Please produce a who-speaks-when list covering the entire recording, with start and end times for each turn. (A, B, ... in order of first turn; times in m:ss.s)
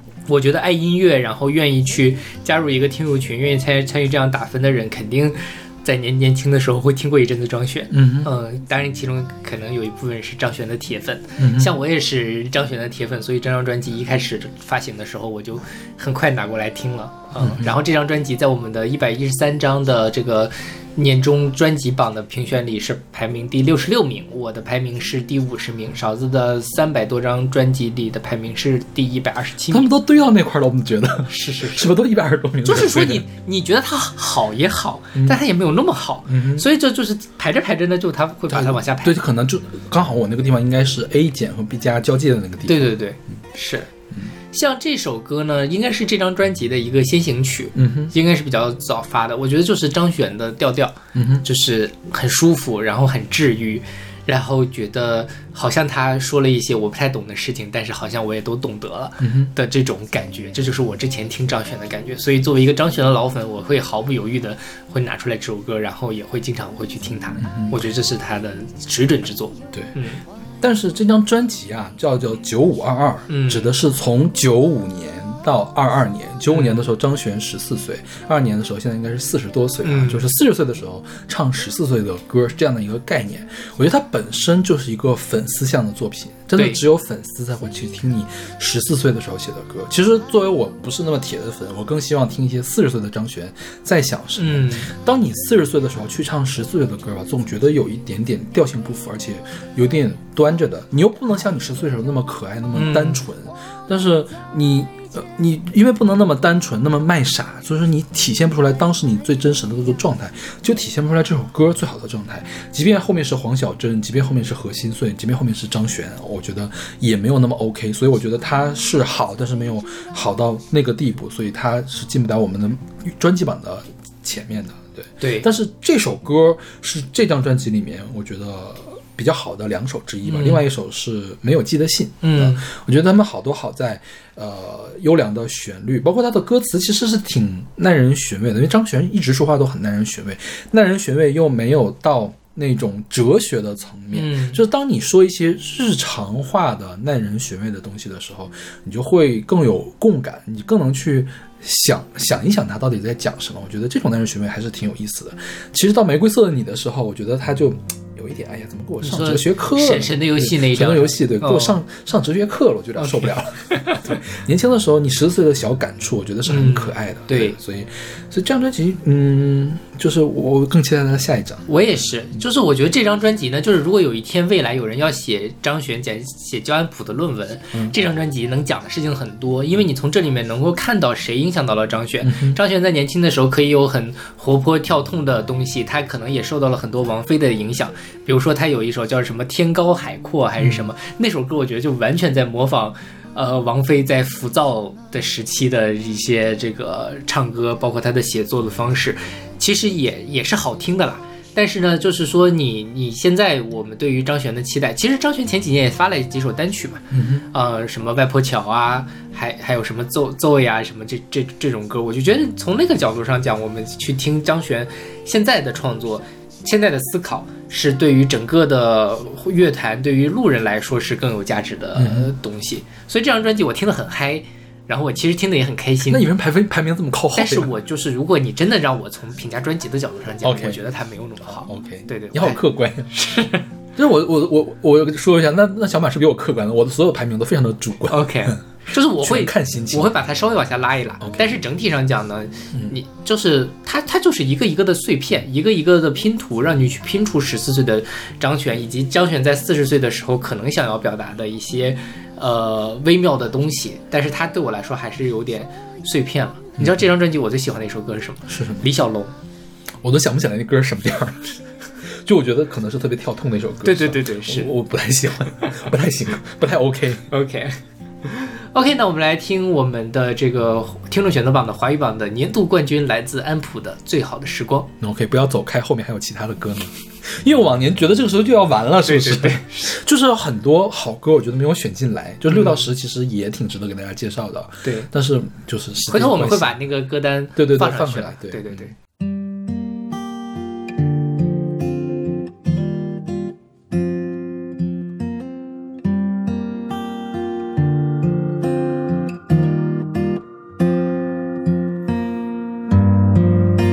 0:00.3-0:29.9 A
0:07.9-0:08.3 B
0:11.4-0:11.7 B
0:17.4-0:17.7 B
0:29.7-0:33.2 B
0:31.3-0:31.9 A
0:32.6-0:39.2 A
0:36.3-0:36.6 B
0:38.5-0:42.9 B
0:42.7-0:43.9 A
0:44.5-1:10.2 A
0:47.7-0:48.1 B
0:51.1-0:51.4 B
0:59.2-0:59.5 B
1:07.4-1:07.8 B
1:10.6-2:51.6 B
1:13.3-1:13.7 A
1:16.5-1:16.8 A
1:19.8-1:20.2 A
1:34.4-1:34.9 A
1:42.7-1:43.2 A
2:05.2-2:05.5 A
2:10.2-2:10.6 A
2:12.2-2:12.6 A
2:24.1-2:24.6 A
2:39.0-2:41.8 A
2:43.0-2:44.1 A
2:46.5-2:47.6 A
2:51.7-3:46.2 A
3:02.2-3:02.6 B
3:10.6-3:10.9 B
3:27.1-3:27.5 B
3:41.9-3:42.3 B
3:46.1-3:47.7 B
3:47.3-3:52.6 A
3:50.4-3:50.8 B
3:51.4-3:53.1 B
3:53.1-3:53.6 A
3:54.0-4:00.2 B
3:58.1-4:19.3 A
4:01.2-4:01.6 B
4:16.8-4:17.1 B
4:18.5-4:18.9 B
4:20.0-4:27.3 B
4:23.8-4:24.7 A
4:27.3-4:34.9 A
4:35.0-4:46.8 B
4:39.0-4:39.9 A
4:42.5-4:42.8 A
4:44.8-4:45.1 A
4:46.1-4:48.9 A
4:47.6-4:48.9 B